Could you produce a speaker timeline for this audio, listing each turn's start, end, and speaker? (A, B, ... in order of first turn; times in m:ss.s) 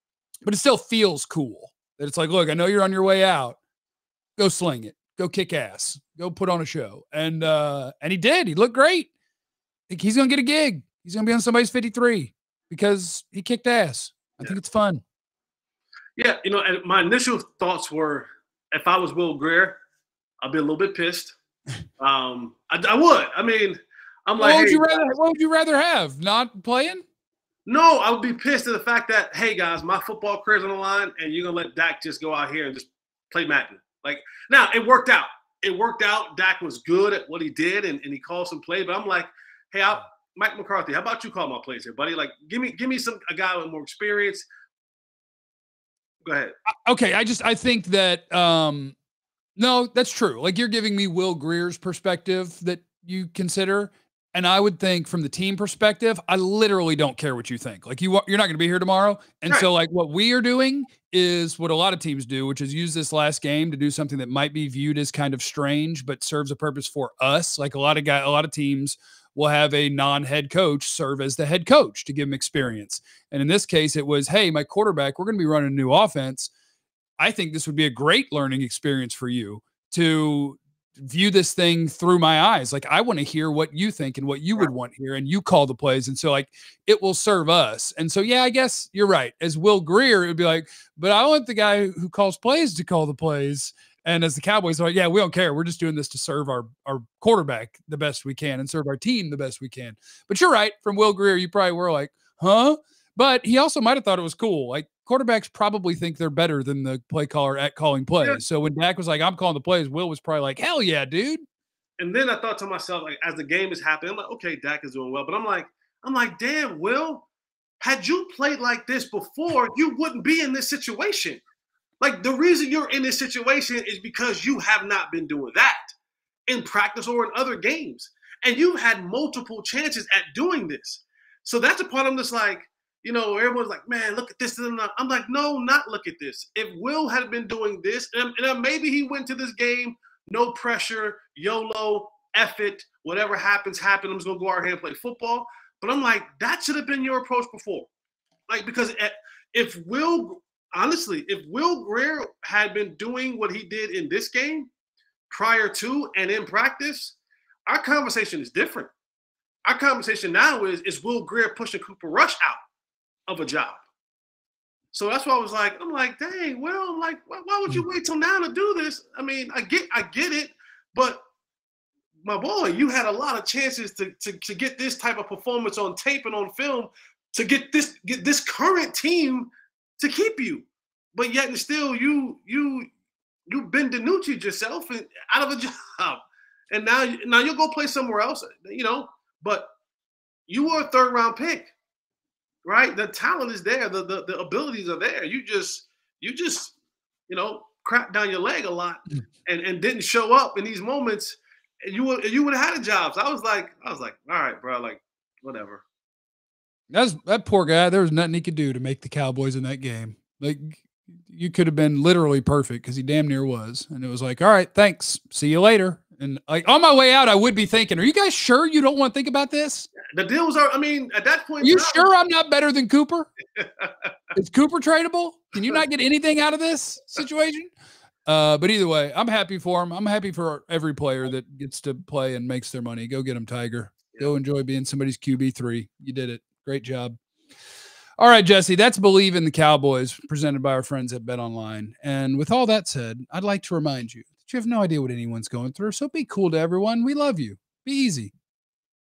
0:00.4-0:03.6 A
0:04.4-0:09.1 A
0:09.9-0:15.0 A
0:16.2-0:19.8 B
0:20.4-0:21.4 B
0:22.0-0:24.9 B
0:24.4-0:27.0 A
0:27.7-0:44.5 B
0:46.2-0:46.5 B
0:46.7-0:49.0 A
0:49.6-1:16.5 A
1:17.2-1:51.4 A
1:52.0-1:57.2 B
1:57.8-2:01.4 B
2:02.0-2:05.9 B
2:06.5-2:27.9 B
2:28.5-2:34.7 B
2:35.3-2:37.2 B
2:37.7-2:38.9 B
2:39.6-2:42.6 B
2:43.3-2:43.8 B
2:44.9-2:51.2 B
2:52.2-3:02.9 B
3:03.5-3:09.7 B
3:10.5-3:11.7 B
3:12.6-3:16.7 B
3:17.3-3:25.8 B
3:26.9-3:39.9 A
3:40.1-3:42.1 B
3:41.6-3:43.3 A
3:43.6-3:44.1 B
3:44.3-3:47.7 A
3:48.2-3:57.2 A
3:58.2-4:08.3 A